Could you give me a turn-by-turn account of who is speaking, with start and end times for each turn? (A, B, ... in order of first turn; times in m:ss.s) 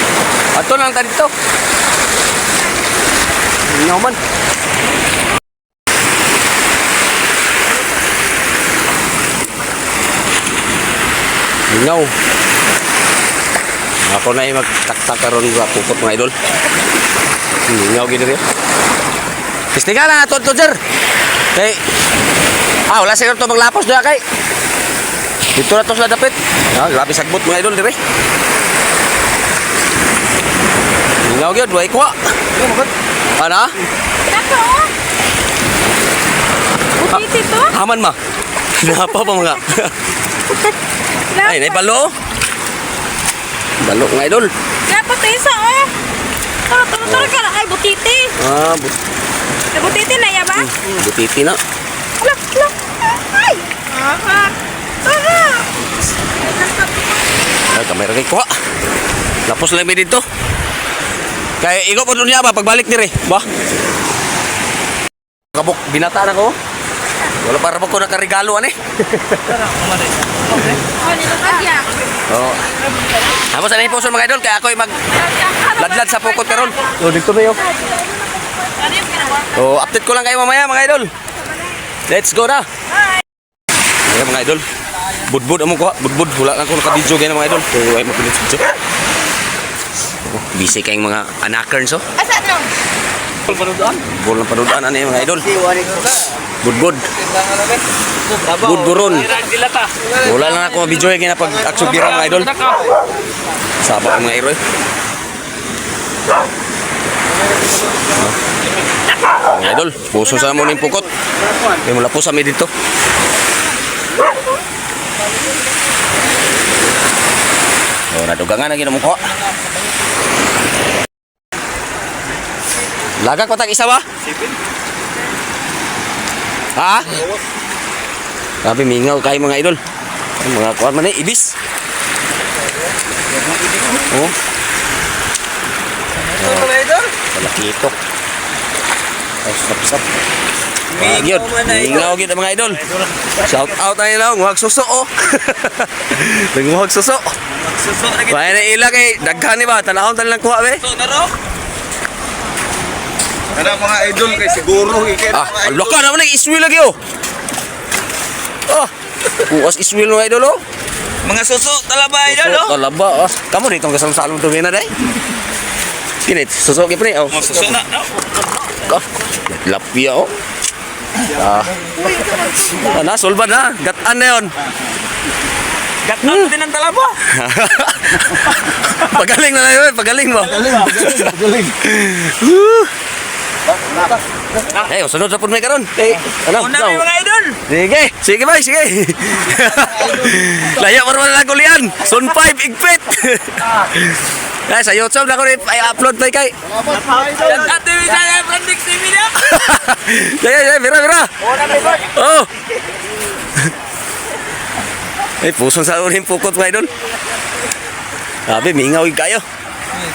0:00.5-0:01.3 A
0:03.7-0:04.2 A
0:11.7-0:12.1 A
0:14.1-0:16.3 A
0:17.7-0:18.4 A
0:19.7-0:20.8 A
0:21.5-0:21.8 A
0:22.9-0:24.2 A
0:25.6-0:28.0 A
0:31.2-0:32.1 A
0:33.4-0:33.7 A
0:34.3-0:34.9 B
0:37.0-0:37.7 B
0:37.1-0:38.2 A
0:38.7-0:40.0 A
0:40.4-0:41.9 B
0:41.4-0:42.1 A
0:43.8-0:44.5 A
0:44.8-0:45.9 B
0:46.7-0:48.3 B
0:47.0-0:47.3 A
0:48.4-0:49.0 A
0:49.7-0:50.8 B
0:50.5-0:51.6 A
0:52.2-0:55.7 B
0:56.4-0:57.2 B
0:57.7-0:58.5 A
0:59.4-1:00.2 A
1:01.6-1:03.4 A
1:05.5-1:06.6 A
1:07.4-1:09.6 A
1:11.0-1:11.9 B
1:12.3-1:12.7 A
1:13.5-1:15.1 A
1:15.4-1:16.8 B
1:15.6-1:17.7 A
1:17.8-1:18.1 B
1:18.7-1:19.4 B
1:19.5-1:21.1 A
1:22.1-1:22.7 A
1:24.1-1:24.6 A
1:25.2-1:28.8 A
1:30.2-1:32.0 A
1:32.2-1:32.7 B
1:33.5-1:34.0 C
1:34.0-1:35.6 A
1:36.6-1:37.1 A
1:37.4-1:37.8 C
1:38.4-1:40.1 C
1:38.5-1:39.3 A
1:40.2-1:42.6 A
1:43.8-1:44.6 A
1:49.4-1:51.1 A
1:51.7-1:52.7 A
1:58.1-1:59.3 A
2:03.2-2:04.0 A
2:06.8-2:07.2 A
2:08.6-2:09.8 A
2:10.4-2:11.5 A
2:13.9-2:14.3 A
2:16.4-2:16.8 A
2:16.5-2:17.0 C
2:17.3-2:18.0 A
2:19.4-2:20.0 A
2:20.9-2:27.3 A
2:21.0-2:22.0 C
2:27.8-2:28.5 C
2:28.2-2:30.8 A
2:30.9-2:31.3 C
2:33.5-2:35.4 C
2:35.3-2:37.0 A
2:38.7-2:40.6 A
2:41.2-2:42.7 C
2:42.2-2:44.9 A
2:46.2-2:47.8 A
2:47.4-2:48.1 C
2:48.8-2:50.3 A
2:51.2-2:51.8 A
2:52.7-2:54.5 A
2:56.0-2:57.2 C
2:56.2-2:56.5 A
2:57.2-3:02.9 A
3:04.7-3:07.1 A
3:06.5-3:07.6 C
3:07.7-3:16.6 A
3:16.9-3:19.4 C
3:19.3-3:21.3 A
3:21.8-3:22.5 A
3:25.4-3:26.9 A
3:28.5-3:29.4 A